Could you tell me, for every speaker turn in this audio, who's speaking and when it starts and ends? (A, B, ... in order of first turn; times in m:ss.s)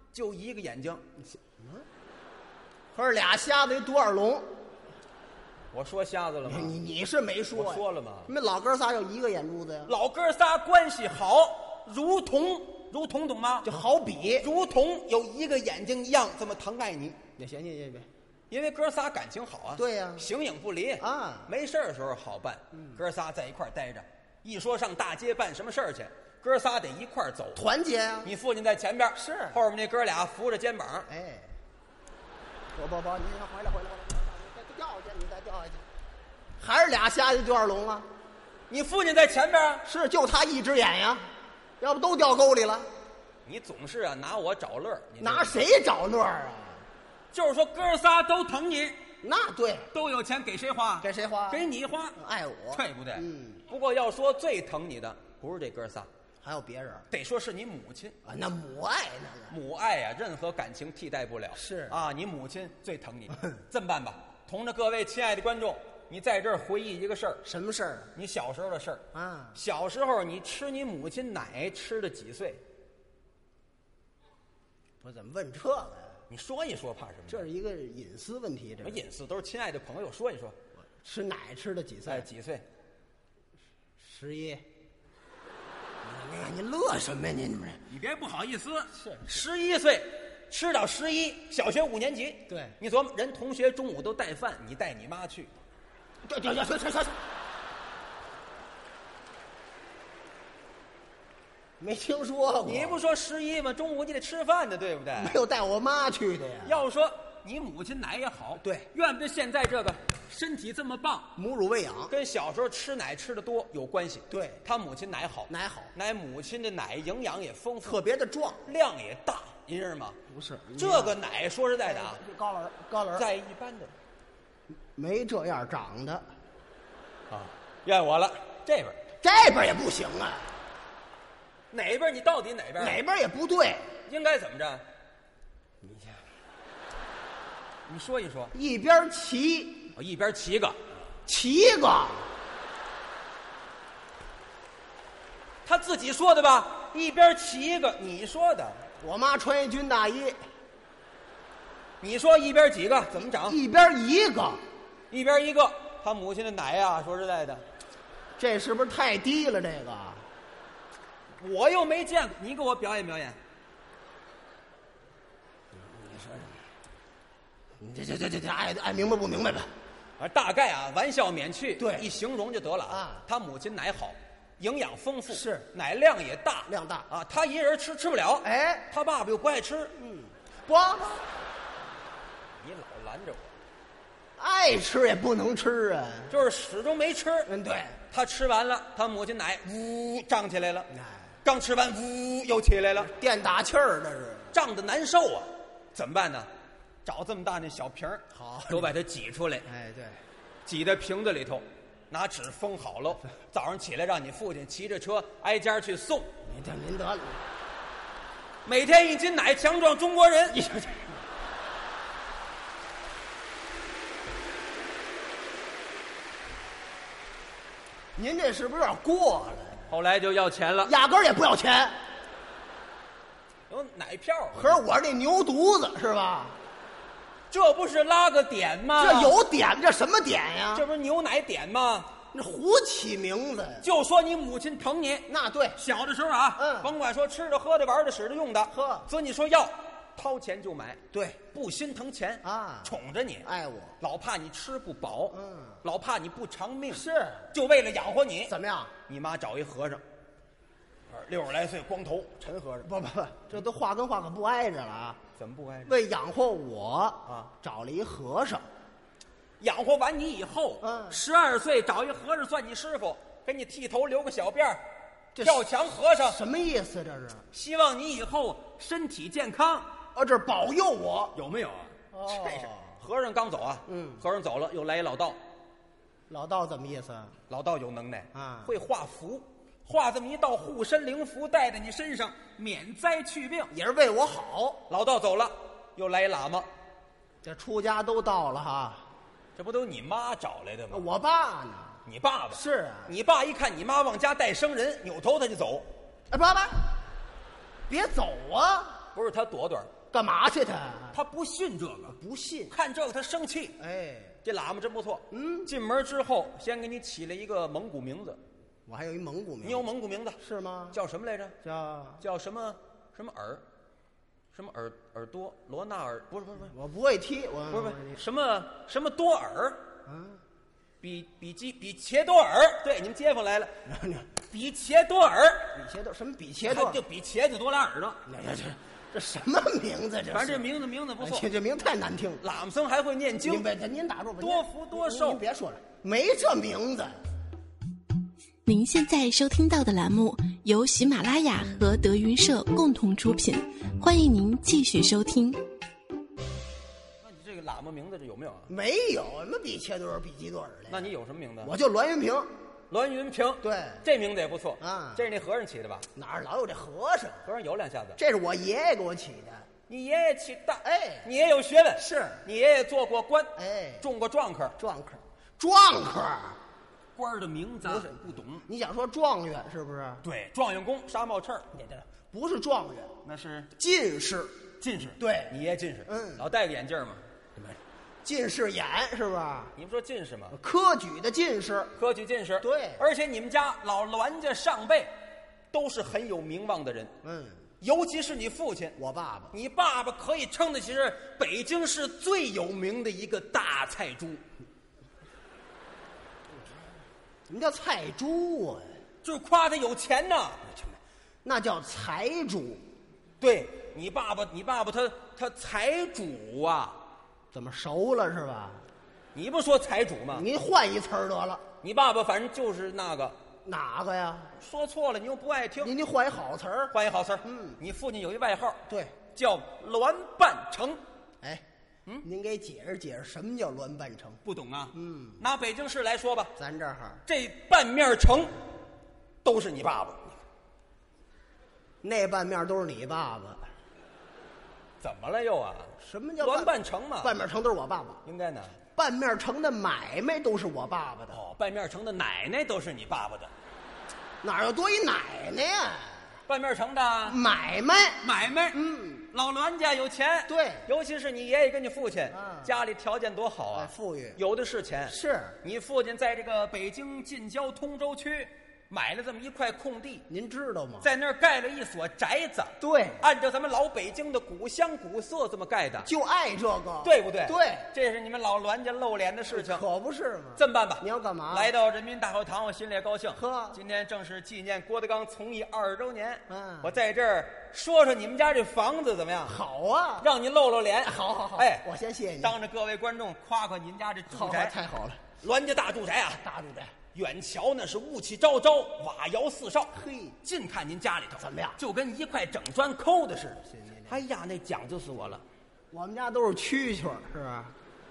0:00.1-0:01.0 A
0:01.6-0:01.8 B
0:02.9-0:04.5 B
0:05.7-0:06.8 A
0:06.5-0:09.9 B
0:07.5-0:08.3 A
0:09.8-0:13.7 A
0:13.6-0:14.5 B
0:14.4-0:17.2 A
0:17.4-0:18.1 B
0:18.5-0:27.6 A
0:19.8-0:20.3 B
0:21.0-0:21.5 B
0:22.7-0:23.0 B
0:27.5-0:28.3 B
0:28.2-0:31.1 A
0:29.1-0:29.6 B
0:31.1-0:31.6 B
0:32.7-0:35.8 B
0:36.6-0:38.1 B
0:38.7-0:39.8 A
0:39.8-0:41.3 B
0:41.8-0:42.9 B
0:43.4-0:45.7 A
0:45.2-0:46.9 B
0:47.3-0:49.0 A
0:49.2-0:49.9 B
0:49.9-0:52.2 A
0:51.0-0:51.6 B
0:52.2-0:53.6 B
0:52.7-0:56.1 A
0:56.4-0:57.1 B
0:57.1-0:58.2 A
0:58.2-0:59.6 B
0:59.5-1:07.4 A
1:01.5-1:02.0 B
1:07.4-1:08.1 B
1:08.1-1:09.0 A
1:09.1-1:09.6 B
1:09.5-1:12.6 A
1:15.0-1:16.2 B
1:16.3-1:17.5 A
1:17.3-1:19.0 B
1:18.8-1:20.6 A
1:20.9-1:22.3 B
1:22.0-1:22.6 A
1:24.0-1:24.6 B
1:26.0-1:27.8 B
1:27.9-1:35.5 A
1:28.9-1:29.4 B
1:32.5-1:32.8 B
1:36.2-1:37.2 B
1:41.8-1:43.0 B
1:42.6-1:45.4 A
1:45.2-1:46.8 B
1:46.6-1:51.3 A
1:48.6-1:48.9 B
1:51.4-1:52.1 B
1:52.1-1:58.0 A
1:54.3-1:54.6 B
1:55.5-1:55.9 B
1:57.8-1:58.7 B
1:58.6-2:00.2 A
2:00.3-2:01.2 B
2:00.8-2:02.2 A
2:01.8-2:03.3 B
2:03.1-2:03.9 A
2:05.0-2:06.3 B
2:07.3-2:09.0 A
2:09.2-2:10.5 B
2:11.7-2:13.0 A
2:12.8-2:14.0 B
2:14.0-2:14.8 A
2:15.8-2:16.2 B
2:17.8-2:18.5 A
2:18.5-2:19.9 B
2:19.9-2:20.8 A
2:21.2-2:22.3 B
2:25.6-2:28.8 A
2:29.0-2:30.4 B
2:32.0-2:33.6 A
2:33.2-2:34.6 B
2:35.1-2:37.6 A
2:38.4-2:40.3 B
2:41.4-2:43.4 A
2:45.7-2:46.6 B
2:47.8-2:49.7 B
2:50.2-2:59.9 A
2:51.8-2:52.1 B
2:52.9-2:53.2 B
2:55.3-2:55.7 B
2:56.7-2:57.1 B
2:58.4-2:58.9 B
2:59.9-3:01.4 B
3:02.6-3:03.5 A
3:04.4-3:06.4 B
3:06.3-3:07.5 A
3:07.4-3:08.0 B
3:08.1-3:10.9 A
3:10.9-3:11.4 B
3:11.4-3:13.1 A
3:13.1-3:14.5 B
3:14.5-3:16.5 A
3:17.0-3:19.7 A
3:18.3-3:18.9 B
3:19.6-3:20.2 B
3:20.6-3:26.3 A
3:26.4-3:27.4 B
3:28.6-3:30.6 A
3:30.5-3:31.2 B
3:38.2-3:39.9 B
3:39.9-3:40.9 A
3:40.8-3:42.0 B
3:43.7-3:44.8 A
3:44.5-3:46.6 B
3:47.5-3:49.4 A
3:49.0-3:50.8 B
3:50.7-3:52.1 A
3:52.3-3:53.9 B
3:53.8-4:03.5 A
3:55.3-3:55.8 B
3:56.6-3:56.9 B
3:58.7-3:59.1 B
4:01.1-4:01.4 B
4:02.4-4:04.0 B
4:04.0-4:08.5 A
4:05.3-4:05.8 B
4:06.9-4:07.6 B
4:08.5-4:08.9 B
4:09.0-4:10.0 A
4:11.1-4:12.9 A
4:12.8-4:15.2 B
4:15.4-4:16.0 A
4:15.8-4:18.6 B
4:17.2-4:17.5 A
4:19.6-4:24.8 A
4:20.8-4:21.2 B
4:25.4-4:25.6 B
4:25.4-4:26.4 A
4:26.3-4:27.5 B
4:27.5-4:30.0 A
4:30.1-4:31.4 B
4:31.3-4:35.4 A
4:32.1-4:33.0 B
4:33.9-4:34.2 B
4:36.3-4:37.4 B
4:37.5-4:43.7 A
4:38.3-4:38.7 B
4:43.7-4:44.8 B
4:44.9-4:46.7 A
4:47.4-4:49.1 B
4:49.6-4:51.0 A
4:50.9-4:53.2 B
4:52.0-4:55.9 A
4:56.3-4:57.0 B
4:57.9-4:59.1 B
4:59.1-5:00.0 A
5:00.1-5:01.2 B
5:01.1-5:02.2 A
5:02.1-5:02.8 B
5:02.7-5:03.8 A
5:03.8-5:04.4 B
5:04.4-5:08.4 A
5:05.3-5:05.7 B
5:08.8-5:09.9 B
5:09.6-5:10.4 A
5:10.4-5:11.0 B
5:10.9-5:11.5 A
5:11.6-5:12.2 B
5:12.2-5:13.6 A
5:14.5-5:16.7 A
5:16.7-5:18.2 B
5:17.7-5:19.9 A
5:20.0-5:20.4 B
5:21.0-5:23.7 A
5:23.8-5:24.4 B
5:24.4-5:25.7 A
5:25.7-5:27.0 B
5:26.6-5:28.2 A
5:28.2-5:30.7 B
5:30.3-5:31.5 A
5:31.2-5:32.4 B
5:32.4-5:33.7 A
5:33.4-5:37.2 B
5:34.4-5:35.4 A
5:38.6-5:45.7 C
5:47.2-5:48.7 A
5:48.7-5:51.1 B
5:50.9-5:51.7 A
5:51.6-5:52.5 B
5:52.9-5:56.1 A
5:53.6-5:54.0 B
5:54.8-5:55.2 B
5:56.1-5:57.5 B
5:57.4-5:58.2 A
5:58.2-5:59.7 B
5:59.9-6:04.8 A
6:00.8-6:01.3 B
6:02.0-6:02.4 B
6:03.6-6:04.1 B
6:04.8-6:06.6 B
6:07.2-6:08.6 A
6:07.8-6:10.2 B
6:10.2-6:11.7 A
6:11.7-6:13.2 B
6:13.2-6:13.7 A
6:13.8-6:14.6 B
6:14.8-6:17.2 A
6:15.2-6:16.4 B
6:17.6-6:19.7 B
6:19.8-6:20.6 A
6:20.5-6:22.0 B
6:22.0-6:25.1 A
6:22.6-6:23.1 B
6:25.7-6:27.1 A
6:27.2-6:27.7 B
6:27.8-6:29.0 A
6:29.0-6:29.6 B
6:29.5-6:34.4 A
6:37.5-6:39.0 B
6:39.2-6:40.6 A
6:40.7-6:42.8 B
6:43.4-6:47.0 A
6:47.5-6:48.9 B
6:49.3-6:50.5 A
6:50.3-6:51.6 B
6:51.8-6:53.4 A
6:53.6-6:54.5 B
6:54.6-6:55.9 A
6:55.8-6:57.8 B
6:56.9-7:01.0 A
6:58.9-6:59.2 B
7:02.2-7:04.4 B
7:04.4-7:06.5 A
7:04.9-7:05.4 B
7:06.6-7:07.2 B
7:07.2-7:08.5 A
7:09.4-7:10.4 A
7:12.0-7:13.7 B
7:15.0-7:17.4 A
7:16.0-7:18.2 B
7:18.2-7:18.8 A
7:18.9-7:21.4 B
7:21.3-7:23.5 A
7:24.4-7:26.3 B
7:26.5-7:27.4 A
7:27.3-7:29.3 B
7:28.2-7:28.8 A
7:29.3-7:40.2 A
7:30.5-7:30.9 B
7:32.3-7:32.7 B
7:33.7-7:34.4 B
7:35.1-7:35.6 B
7:40.3-7:41.1 B
7:41.0-7:46.1 A
7:42.8-7:43.2 B
7:46.0-7:47.9 B
7:47.0-7:49.8 A
7:49.5-7:51.7 B
7:50.6-7:59.6 A
7:53.3-7:53.8 B
7:56.5-7:56.9 B
7:59.4-8:00.3 B
8:00.2-8:01.8 A
8:01.0-8:02.5 B
8:02.4-8:04.7 A
8:04.3-8:05.3 B
8:05.4-8:06.4 A
8:06.3-8:07.0 B
8:07.1-8:15.4 A
8:09.9-8:10.4 B
8:11.4-8:11.8 B
8:13.6-8:14.2 B
8:15.9-8:17.7 B